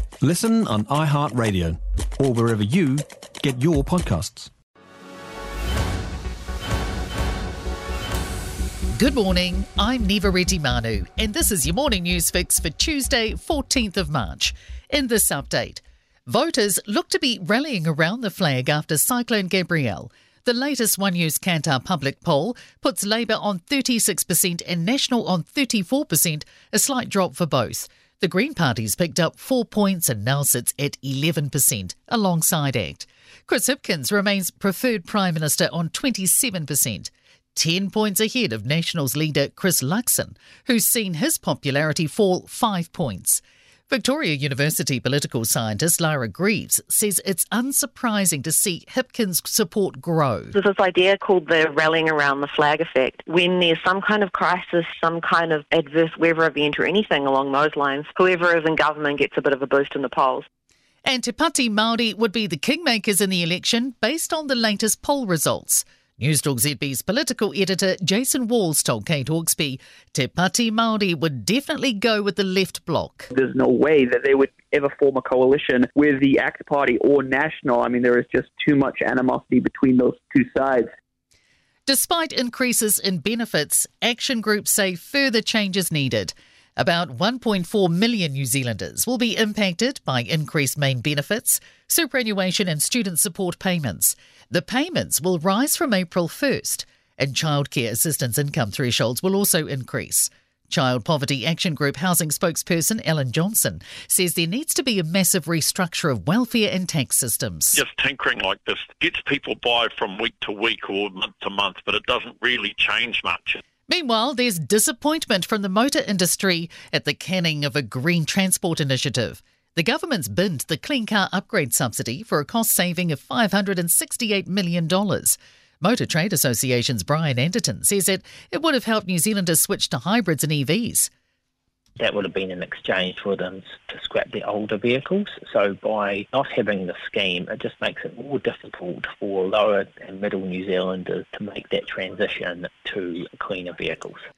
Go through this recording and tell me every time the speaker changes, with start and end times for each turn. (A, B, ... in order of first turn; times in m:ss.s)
0:00.2-0:04.5 A
0:09.0-0:50.5 B
0:50.6-1:00.4 C
1:01.0-1:13.3 B
1:13.3-1:20.9 D
1:21.9-1:47.8 B
1:47.7-1:53.6 E
1:53.9-2:11.1 B
2:12.0-2:24.2 F